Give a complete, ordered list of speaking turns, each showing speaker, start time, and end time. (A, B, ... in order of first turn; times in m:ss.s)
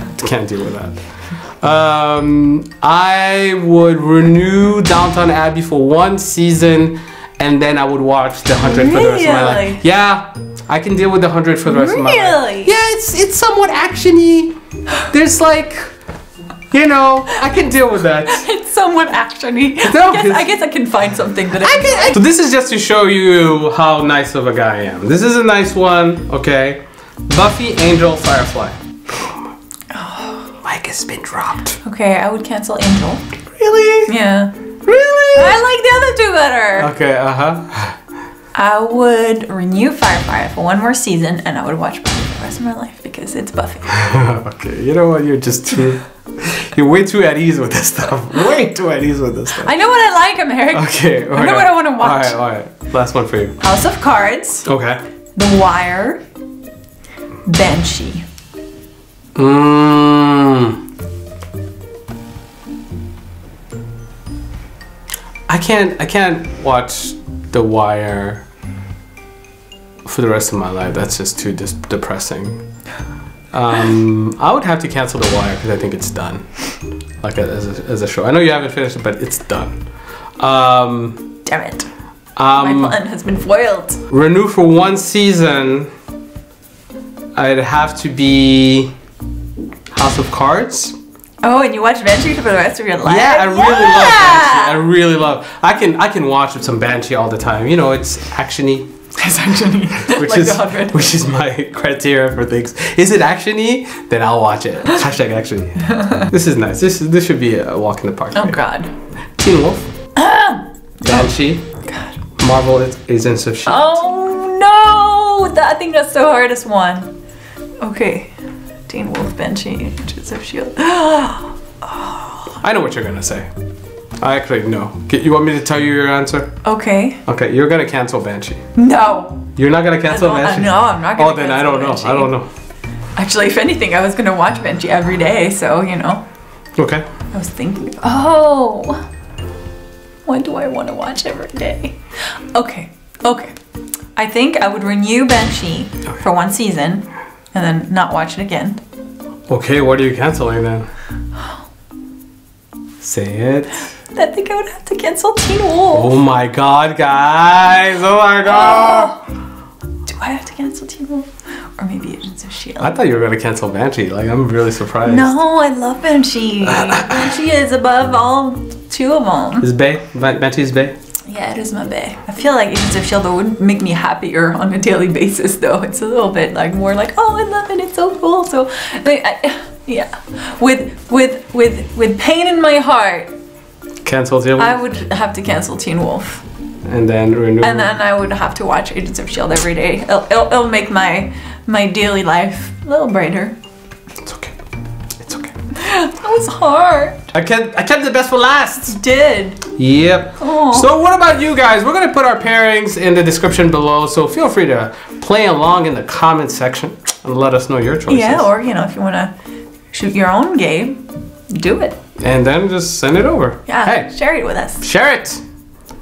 0:00.1-0:14.5 A
0:08.6-0:09.8 B
0:11.7-0:12.7 B
0:15.1-0:15.8 A
0:16.7-0:18.5 A
0:18.3-0:22.2 B
0:19.8-0:20.5 A
0:21.6-0:29.3 A
0:29.9-0:30.5 B
0:30.6-0:31.8 A
0:31.8-0:33.4 B
0:33.5-0:34.1 A
0:34.1-0:34.5 B
0:34.8-0:35.6 A
0:35.3-0:36.9 B
0:36.8-0:38.0 A
0:38.5-0:44.0 B
0:43.9-0:49.7 A
0:49.6-0:52.4 B
0:50.7-0:53.6 A
0:53.6-0:54.7 B
0:54.6-0:55.0 A
0:55.4-0:56.2 B
0:57.4-0:58.2 B
0:59.3-1:00.8 A
1:05.5-1:08.4 A
1:10.0-1:12.6 A
1:13.5-1:19.8 A
1:20.4-1:21.3 A
1:21.4-1:21.9 B
1:22.4-1:23.0 A
1:22.6-1:24.0 B
1:24.1-1:25.9 A
1:27.3-1:28.9 A
1:29.9-1:30.9 A
1:31.4-1:34.8 B
1:33.0-1:38.9 A
1:39.1-1:41.1 B
1:40.0-1:48.6 A
1:45.9-1:46.2 B
1:48.3-1:48.9 B
1:49.4-1:49.9 A
1:50.2-1:51.3 B
1:51.0-1:51.6 A
1:51.8-1:52.2 B
1:52.4-1:54.0 A
1:53.6-1:57.1 B
1:57.8-1:58.3 B
1:58.9-2:02.6 B
2:02.6-2:03.5 A
2:04.2-2:06.6 A
2:06.6-2:07.2 B
2:07.2-2:08.6 A
2:08.7-2:09.5 B
2:09.6-2:12.5 A
2:10.1-2:12.3 B
2:13.2-2:16.2 B
2:16.8-2:17.0 A
2:17.3-2:19.0 B
2:20.2-2:22.0 B
2:22.5-2:23.5 B
2:24.2-2:28.8 B
2:29.5-2:30.9 A
2:33.0-2:33.8 A
2:34.1-2:36.2 B
2:35.9-2:39.2 A
2:38.4-2:39.2 B
2:40.0-2:43.0 B
2:42.8-2:45.3 A
2:45.0-2:49.7 B
2:46.6-2:47.3 A
2:49.6-2:50.9 A
2:51.3-3:03.3 B
3:04.0-3:04.8 A
3:04.6-3:06.4 B
3:06.8-3:08.0 A
3:07.6-3:13.5 B
3:14.2-3:14.6 A
3:15.2-3:15.5 A
3:15.7-3:17.3 B
3:17.3-3:19.0 A
3:18.9-3:19.6 B
3:19.8-3:28.5 A
3:20.4-3:20.9 B
3:28.1-3:29.3 B
3:29.9-3:32.0 B
3:32.2-3:34.1 A
3:33.7-3:34.8 B
3:34.8-3:35.4 A